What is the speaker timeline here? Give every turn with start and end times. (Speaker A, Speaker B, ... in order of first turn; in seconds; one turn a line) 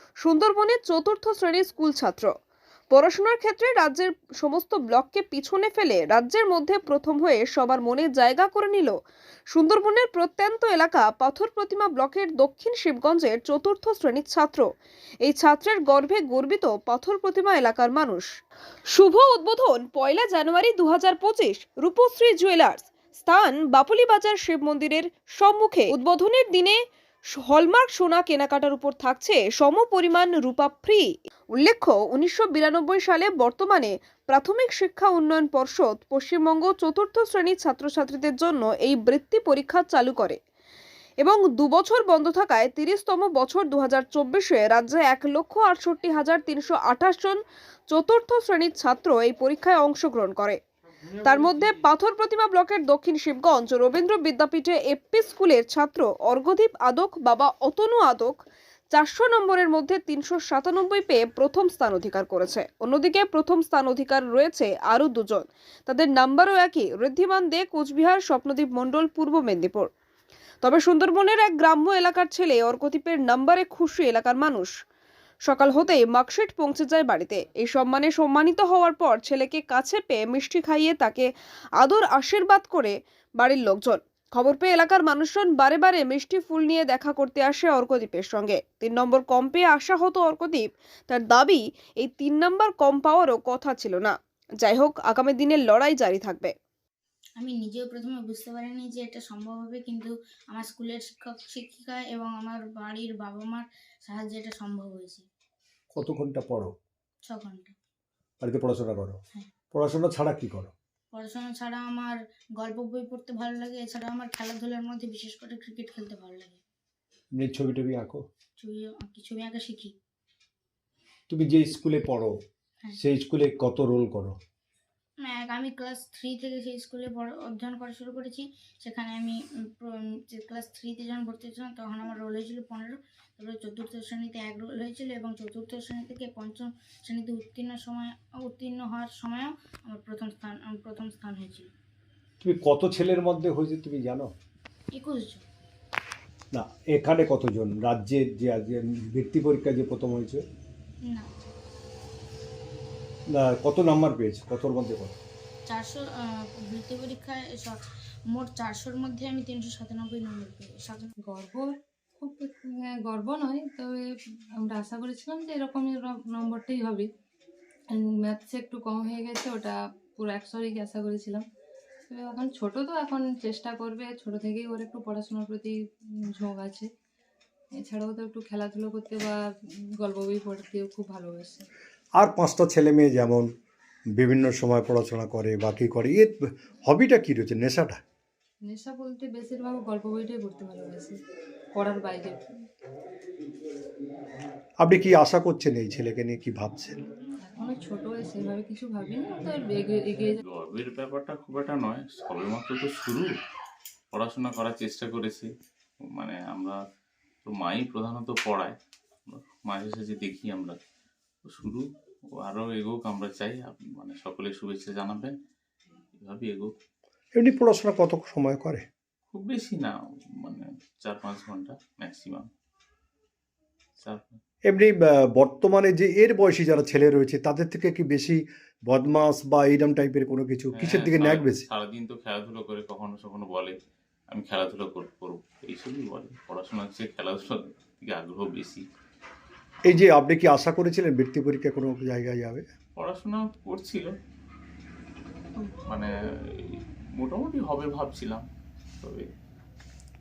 Speaker A: 0.2-2.3
Speaker A: 2.9-8.9
Speaker A: 9.5-14.7
Speaker A: 15.2-18.3
Speaker A: 18.9-26.8
Speaker A: 27.3-40.4
Speaker A: 41.2-50.6
Speaker A: 51.2-58.4
Speaker A: 58.9-69.9
Speaker A: 70.6-74.7
Speaker A: 75.5-81.3
Speaker A: 81.8-96.5
Speaker B: 97.4-105.2
Speaker C: 105.9-106.7
Speaker B: 107.3-107.7
Speaker C: 108.4-109.2
Speaker C: 109.7-110.7
Speaker B: 111.1-116.6
Speaker C: 117.4-118.2
Speaker B: 118.6-119.9
Speaker C: 121.3-122.4
Speaker C: 123.0-124.4
Speaker B: 125.2-141.7
Speaker C: 142.4-144.3
Speaker B: 145.0-145.4
Speaker C: 146.5-150.4
Speaker B: 151.1-151.4
Speaker C: 153.3-155.2
Speaker B: 155.7-161.1
Speaker D: 161.3-164.1
Speaker D: 164.6-167.1
Speaker D: 167.9-171.4
Speaker D: 172.1-176.9
Speaker D: 177.8-179.4
Speaker D: 180.0-181.7
Speaker C: 182.2-183.5
Speaker C: 184.2-188.0
Speaker D: 188.7-191.2
Speaker D: 191.8-192.4
Speaker C: 194.8-197.0
Speaker D: 197.5-200.4
Speaker E: 200.4-203.3
Speaker E: 204.1-205.5
Speaker E: 206.1-206.8
Speaker E: 207.4-208.8
Speaker E: 209.3-210.8
Speaker E: 211.5-211.8
Speaker E: 212.4-215.3
Speaker E: 216.2-216.7
Speaker C: 217.4-218.8
Speaker E: 219.3-222.5
Speaker E: 224.0-224.4
Speaker C: 224.7-231.6
Speaker E: 230.8-233.7
Speaker E: 234.3-238.8
Speaker C: 239.9-242.7
Speaker E: 243.0-244.1
Speaker E: 246.6-248.4